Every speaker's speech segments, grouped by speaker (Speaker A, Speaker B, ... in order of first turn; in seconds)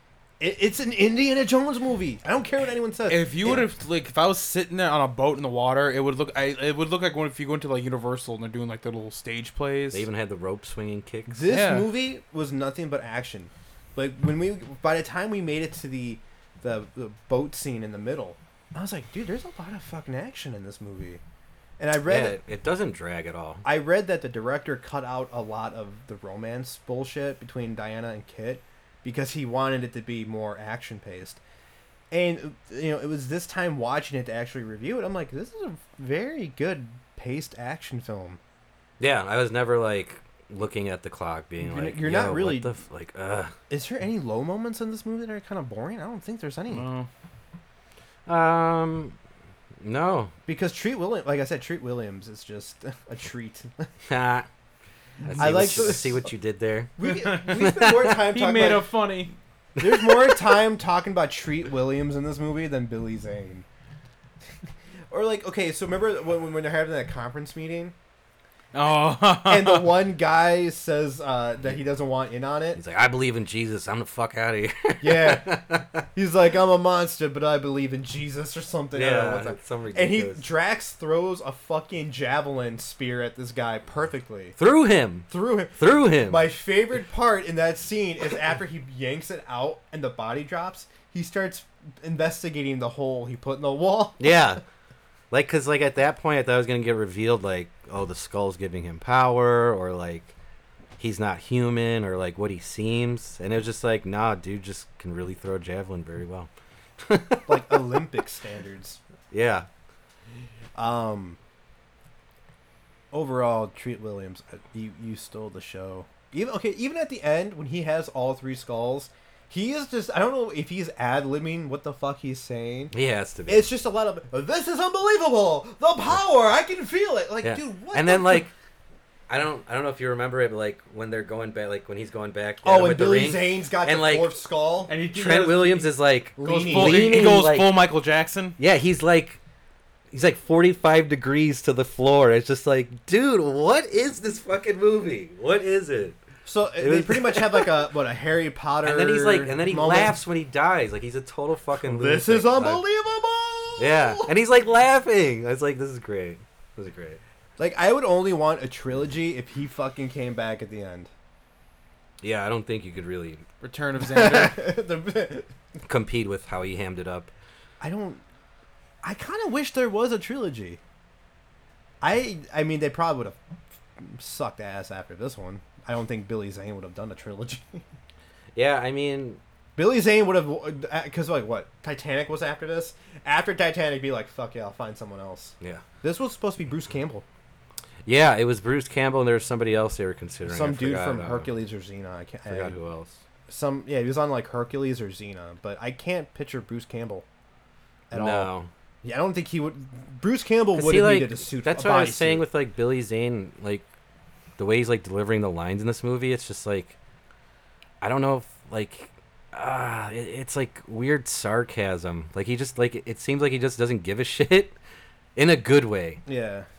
Speaker A: 0.4-3.7, 11.3-21.2, 21.8-22.4, 23.6-31.4, 32.1-38.4, 41.6-42.7, 43.7-46.9, 50.5-53.9, 55.3-56.3, 57.0-58.9, 59.8-63.6, 65.1-67.9, 69.5-72.8, 75.0-84.5, 85.3-94.4, 107.5-109.0, 110.8-111.4, 113.1-122.9, 123.5-128.5, 132.6-134.9, 136.4-137.2, 146.4-150.2, 151.8-154.3, 157.6-161.1, 164.0-165.5, 167.8-168.2, 169.0-170.8, 172.0-173.4, 173.9-177.9, 179.8-187.2, 190.4-192.7, 193.5-197.2, 198.1-198.5, 199.0-202.4, 216.2-216.7
Speaker B: 3.1-10.1, 11.4-11.9, 46.7-47.1, 57.0-59.3, 68.7-69.9, 134.9-138.6, 163.6-164.7
Speaker C: 9.9-11.4, 22.1-23.6, 39.0-43.5, 48.2-49.1, 49.8-50.3, 54.0-54.5, 55.2-58.2, 59.8-60.5, 72.8-76.0, 78.9-80.5, 84.6-86.5, 94.2-94.6, 95.3-100.3, 101.0-106.5, 107.0-107.8, 109.3-109.7, 122.9-123.7, 127.4-128.5, 129.3-134.4, 135.1-137.8, 138.6-139.4, 140.1-146.2, 146.8-147.7, 148.8-152.8, 153.8-157.2, 162.2-163.4, 165.8-167.3, 178.5-179.4, 188.0-191.5, 192.5-193.2, 198.1-198.7, 200.7-203.8, 204.6-206.9, 208.0-214.8, 215.3-216.2